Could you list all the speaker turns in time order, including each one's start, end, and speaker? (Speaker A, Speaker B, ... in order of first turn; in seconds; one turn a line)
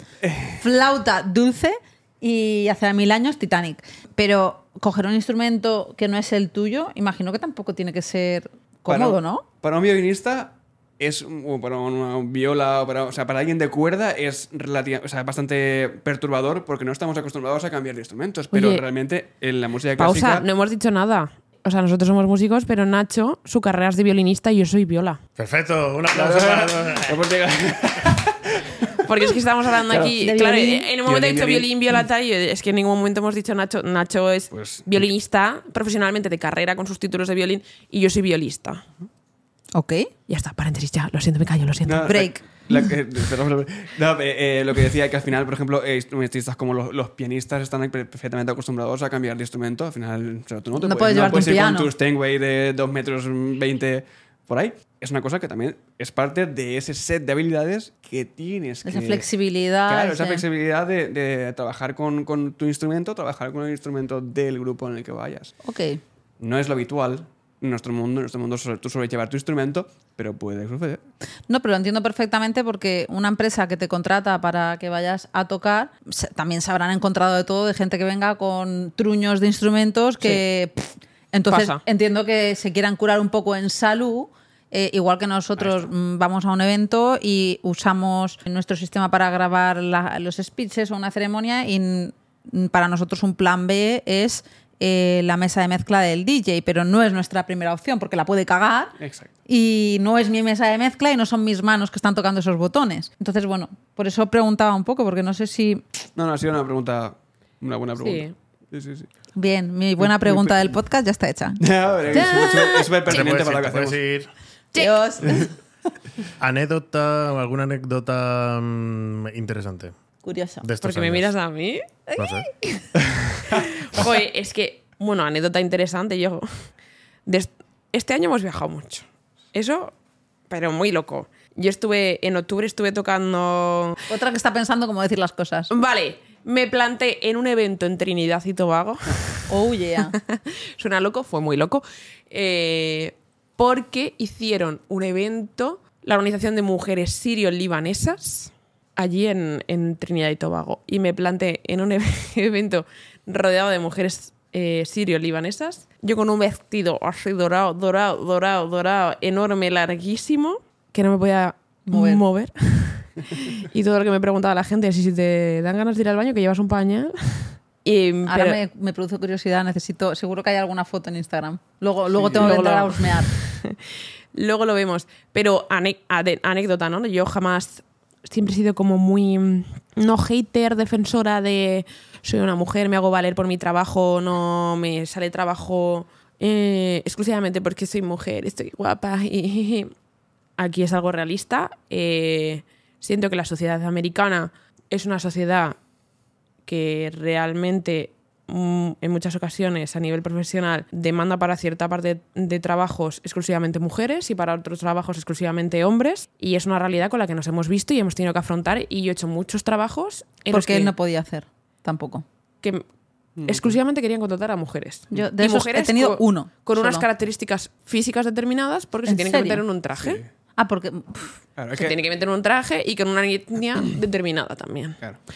Speaker A: 0.2-0.6
Speaker B: 0.6-9.4
Speaker A: 8.9-20.5
Speaker C: 18.5-18.8
Speaker C: 20.0-25.2
Speaker D: 25.4-27.2
Speaker A: 26.1-29.0
Speaker C: 29.0-38.8
Speaker A: 29.9-30.1
Speaker B: 30.2-30.9
Speaker A: 31.1-31.7
Speaker A: 34.5-35.0
Speaker B: 39.8-40.1
Speaker C: 40.3-42.1
Speaker A: 41.9-59.3
Speaker B: 42.1-42.4
Speaker B: 50.8-51.9
Speaker B: 58.8-60.4
Speaker A: 59.9-65.6
Speaker B: 65.6-66.0
Speaker A: 66.4-71.0
Speaker B: 71.5-99.0
Speaker C: 81.5-81.8
Speaker A: 85.6-85.9
Speaker A: 99.0-99.3
Speaker B: 99.5-105.8
Speaker A: 106.2-109.1
Speaker C: 108.0-108.3
Speaker B: 109.4-111.6
Speaker A: 110.0-110.8
Speaker A: 111.6-114.0
Speaker D: 111.9-112.3
Speaker C: 112.1-112.9
Speaker B: 112.2-112.6
Speaker D: 113.0-114.3
Speaker C: 114.7-115.0
Speaker B: 114.8-115.5
Speaker D: 116.4-120.0
Speaker B: 120.2-120.7
Speaker D: 120.6-121.3
Speaker C: 120.8-122.0
Speaker D: 122.2-122.5
Speaker C: 123.5-126.7
Speaker C: 127.3-129.9
Speaker C: 130.5-134.0
Speaker B: 134.1-135.7
Speaker C: 135.7-168.6
Speaker B: 139.5-140.2
Speaker B: 161.9-162.2
Speaker B: 168.3-173.3
Speaker A: 172.1-172.6
Speaker C: 172.4-173.8
Speaker C: 174.3-189.9
Speaker C: 190.6-195.8
Speaker C: 196.7-210.9
Speaker B: 210.5-212.2
Speaker A: 213.4-213.8
Speaker C: 213.5-220.2
Speaker B: 215.1-217.1
Speaker B: 219.1-219.6
Speaker A: 220.0-220.3
Speaker B: 220.6-221.4
Speaker A: 221.6-222.0
Speaker C: 221.8-225.0